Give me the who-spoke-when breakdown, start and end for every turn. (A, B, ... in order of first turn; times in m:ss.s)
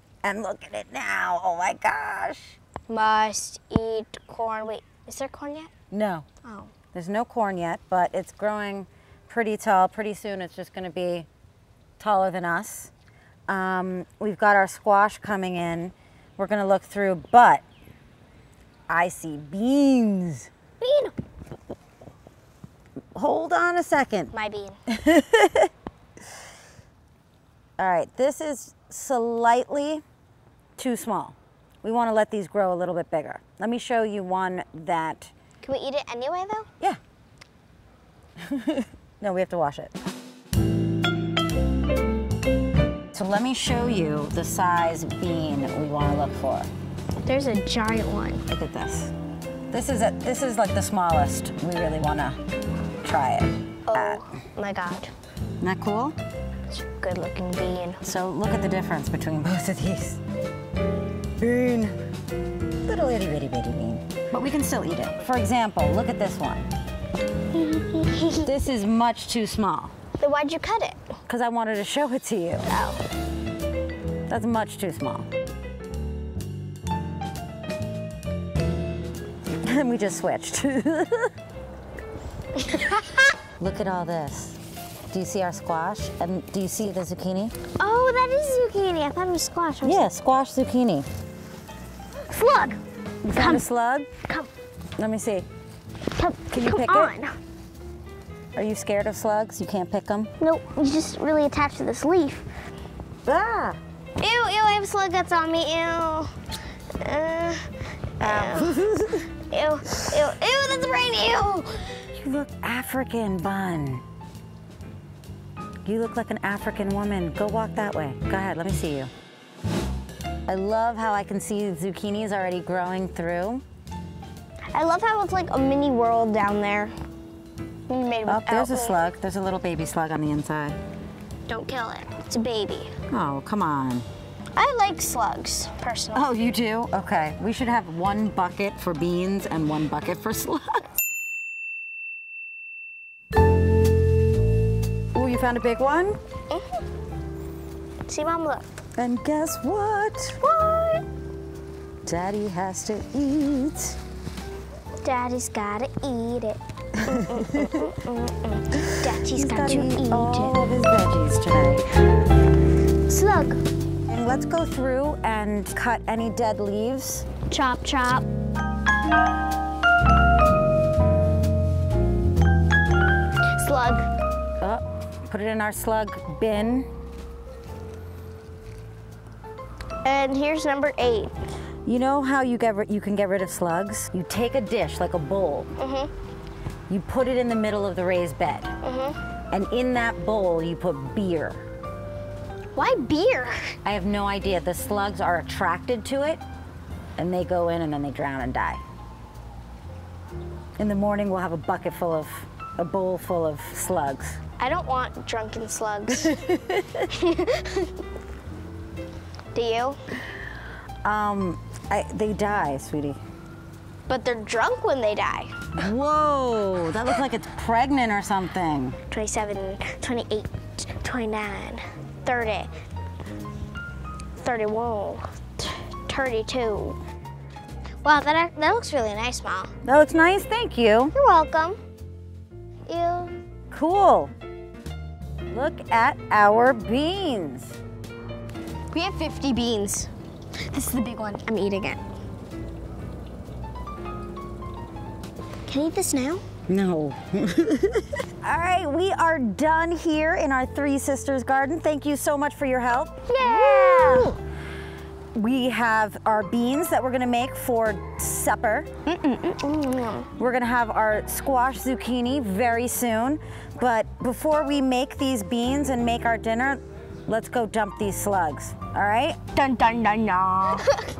0:00.2-0:02.6 A
0:02.9-0:05.7 B
0:05.9-0:06.2 A
0:06.4-0:06.7 B
0:06.9-0:11.3 A
0:12.0-0:12.9 A
0:13.5-0:17.6 A
0:18.9-0:20.5 A
0:20.8-0:21.1 B
0:23.1-0:24.3 A
0:24.3-0:24.8 B
0:24.9-0:25.7 A
0:27.8-0:30.0 A
0:30.8-0:35.3 A
0:35.6-0:36.7 B
0:38.4-0:39.9 A
0:43.1-0:46.7 A
0:47.2-0:48.4 B
0:48.5-0:49.1 A
0:49.7-0:52.4 A
0:53.0-0:54.2 A
0:53.9-0:55.1 B
0:55.6-0:56.2 A
0:56.7-0:58.0 B
0:58.0-1:00.2 A
1:01.4-1:02.0 A
1:02.8-1:06.7 A
1:07.5-1:08.5 B
1:08.4-1:09.9 A
1:10.2-1:11.0 B
1:11.3-1:12.6 A
1:12.6-1:13.0 B
1:14.3-1:15.2 A
1:19.6-1:21.3 A
1:22.6-1:23.2 B
1:23.6-1:24.6 A
1:25.1-1:27.5 A
1:27.8-1:30.1 B
1:29.8-1:31.1 A
1:32.3-1:32.8 B
1:33.2-1:34.1 A
1:33.3-1:33.6 B
1:35.0-1:35.4 A
1:36.1-1:37.3 B
1:36.5-1:37.1 A
1:38.5-1:40.3 A
1:40.4-1:42.4 B
1:43.2-1:43.8 A
1:44.2-1:46.3 B
1:47.0-1:51.9 B
1:48.2-1:49.2 A
1:52.1-1:54.0 A
1:55.8-1:59.1 A
2:00.5-2:03.6 A
2:04.7-2:06.9 B
2:07.9-2:09.0 B
2:08.2-2:10.8 A
2:11.5-2:12.9 B
2:13.1-2:14.0 A
2:14.5-2:16.3 B
2:16.1-2:20.8 A
2:25.1-2:26.2 A
2:26.5-2:26.8 B
2:28.1-2:28.7 B
2:29.0-2:30.6 A
2:30.6-2:31.0 B
2:32.0-2:34.0 A
2:35.0-2:40.6 B
2:37.1-2:37.9 A
2:39.3-2:41.9 A
2:43.1-2:43.6 B
2:44.1-2:47.2 A
2:47.5-2:48.2 B
2:53.6-2:54.0 B
2:54.6-2:56.9 A
3:00.0-3:01.3 B
3:01.8-3:05.7 A
3:05.8-3:06.1 B
3:06.9-3:08.7 A
3:08.8-3:09.2 B
3:09.5-3:11.6 A
3:12.7-3:13.7 B
3:13.8-3:16.4 A
3:17.2-3:18.8 A
3:20.8-3:24.4 A
3:24.6-3:26.4 B
3:26.1-3:27.1 A
3:27.1-3:27.9 B
3:29.5-3:30.0 B
3:31.0-3:33.2 A
3:34.1-3:35.5 B
3:35.7-3:39.0 A
3:39.1-3:42.7 B
3:44.4-3:47.0 B
3:48.0-3:49.7 B
3:49.8-3:51.1 A
3:51.1-3:51.8 B
3:52.9-3:53.3 B
3:53.7-3:54.3 A
3:55.5-3:57.8 A
3:58.9-4:00.1 B
4:00.6-4:02.0 B
4:05.7-4:06.4 B
4:06.7-4:14.4 A
4:13.3-4:14.4 B
4:15.3-4:18.9 A
4:19.1-4:20.3 B
4:20.4-4:29.4 A
4:29.5-4:31.0 B